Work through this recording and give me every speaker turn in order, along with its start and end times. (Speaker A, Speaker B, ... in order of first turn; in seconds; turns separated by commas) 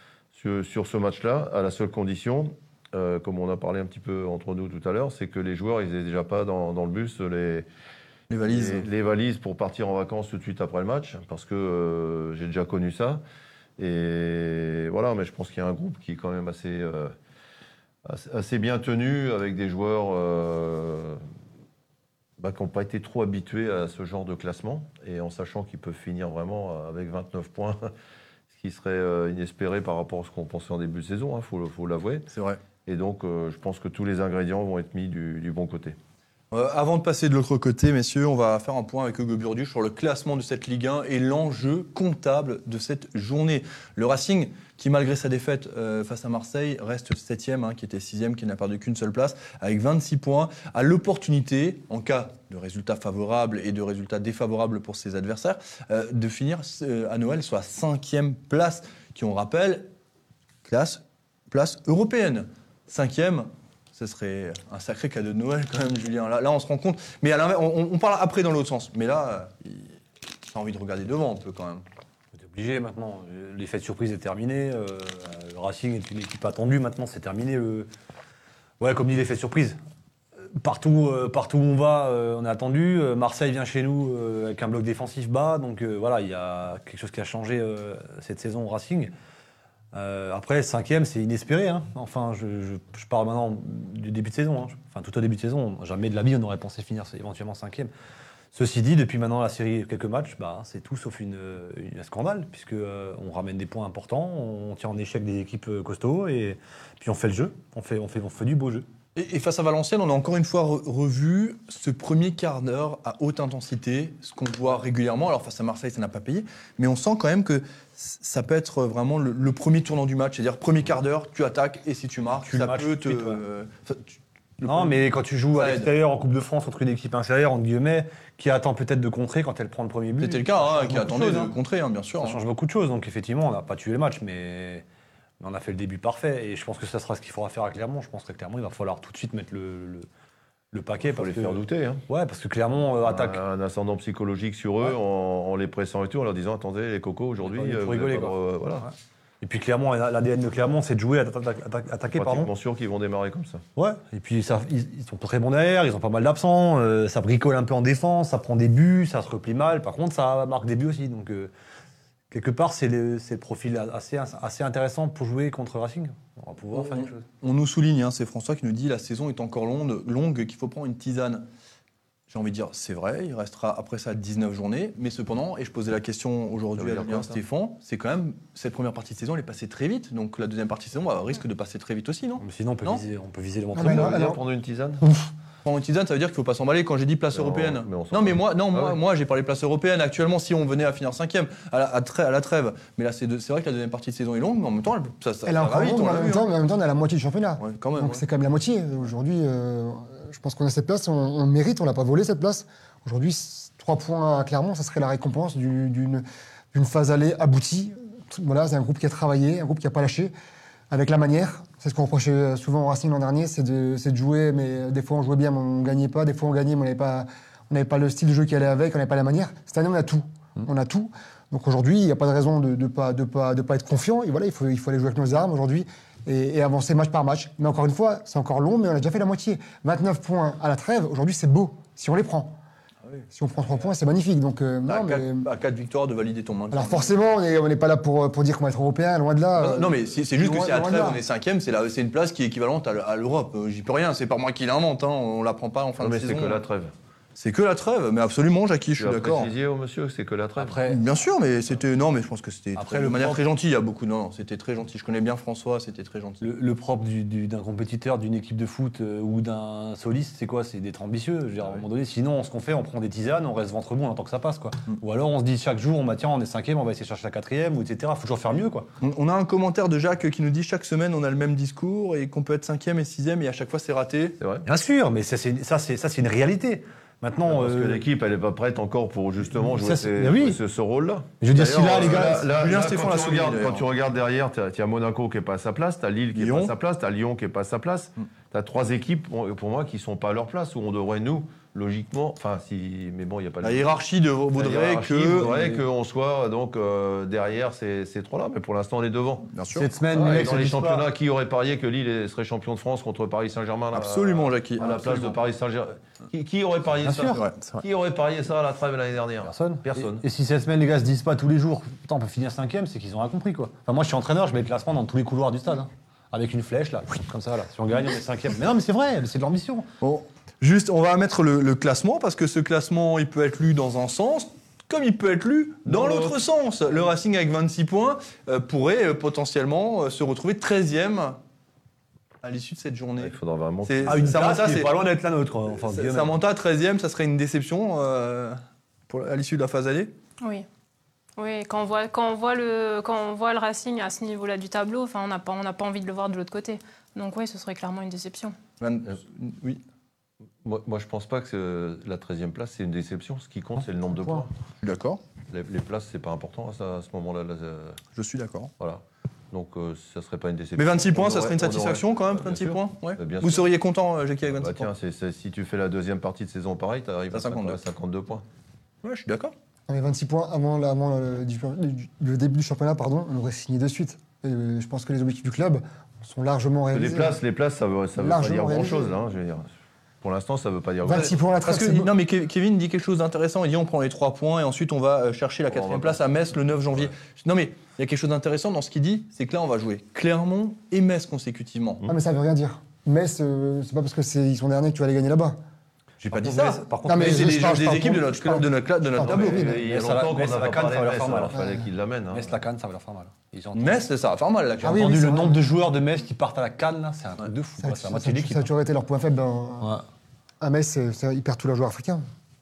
Speaker A: 0.3-7.7, Speaker B: 8.3-8.9, Speaker A: 8.5-13.2, Speaker A: 13.8-17.1, Speaker A: 18.1-21.2, Speaker A: 22.4-27.9, Speaker A: 28.5-32.3, Speaker B: 32.3-32.6, Speaker A: 32.9-36.0, Speaker B: 36.5-59.9, Speaker B: 60.6-69.9, Speaker B: 70.5-71.8, Speaker C: 72.4-77.9, Speaker C: 78.8-79.8, Speaker C: 80.5-89.1, Speaker C: 89.9-97.9, Speaker C: 98.5-108.9, Speaker B: 109.2-125.0, Speaker C: 122.5-123.4, Speaker C: 124.6-131.5, Speaker B: 125.5-125.9, Speaker B: 130.2-132.4, Speaker C: 132.2-134.8, Speaker C: 135.4-140.1, Speaker C: 140.7-143.4, Speaker A: 141.0-142.1, Speaker A: 143.0-148.9, Speaker C: 147.4-152.5, Speaker A: 152.1-153.6, Speaker C: 153.8-161.5, Speaker C: 162.3-167.2, Speaker B: 166.7-171.5, Speaker B: 172.3-183.0, Speaker A: 176.8-177.4, Speaker C: 182.4-184.3, Speaker D: 183.7-184.4, Speaker A: 183.8-185.0, Speaker B: 185.7-196.5, Speaker A: 187.3-189.0, Speaker D: 195.5-210.3, Speaker B: 197.6-198.2, Speaker D: 210.9-232.6, Speaker D: 233.3-235.5, Speaker B: 234.9-237.2, Speaker D: 236.7-241.2, Speaker B: 239.6-246.6, Speaker A: 246.0-246.9, Speaker B: 247.4-249.5, Speaker A: 249.0-250.8, Speaker C: 250.6-251.0, Speaker B: 250.9-256.4, Speaker C: 252.8-253.4, Speaker C: 256.4-268.9, Speaker B: 269.0-274.4, Speaker A: 274.4-274.7, Speaker C: 274.7-278.0, Speaker A: 277.5-293.9, Speaker C: 279.6-280.6, Speaker C: 281.4-282.5, Speaker B: 281.9-283.9, Speaker B: 286.3-286.7, Speaker B: 293.6-295.8, Speaker A: 294.6-299.6, Speaker B: 299.5-299.9, Speaker C: 299.8-301.1, Speaker A: 300.1-310.2, Speaker B: 303.9-305.4, Speaker C: 307.0-307.4, Speaker B: 307.3-307.8, Speaker C: 309.4-319.9, Speaker B: 320.0-331.4, Speaker A: 325.9-326.4, Speaker B: 332.4-334.9, Speaker A: 333.2-334.5, Speaker C: 334.1-336.4, Speaker B: 335.8-340.1, Speaker E: 340.4-340.7, Speaker E: 341.4-348.6, Speaker B: 348.8-349.8, Speaker A: 350.6-354.5, Speaker D: 354.2-354.4, Speaker B: 354.8-355.2, Speaker A: 355.5-358.0, Speaker B: 358.1-358.7, Speaker A: 358.8-363.7, Speaker B: 360.8-364.9, Speaker A: 364.5-368.4, Speaker B: 367.3-367.8, Speaker B: 369.0-369.5, Speaker D: 369.9-377.4, Speaker A: 376.9-379.7, Speaker D: 378.2-379.2, Speaker A: 380.2-381.4, Speaker D: 381.0-382.1, Speaker B: 381.6-392.1, Speaker A: 385.7-386.2, Speaker D: 392.1-395.6, Speaker C: 396.2-397.9, Speaker B: 396.3-400.4, Speaker D: 397.1-399.9, Speaker A: 399.2-402.6, Speaker C: 399.9-401.6, Speaker D: 401.5-401.9, Speaker C: 402.3-404.0, Speaker B: 403.8-405.5, Speaker C: 404.8-408.7, Speaker D: 404.8-405.6, Speaker D: 407.8-410.0, Speaker D: 410.6-412.2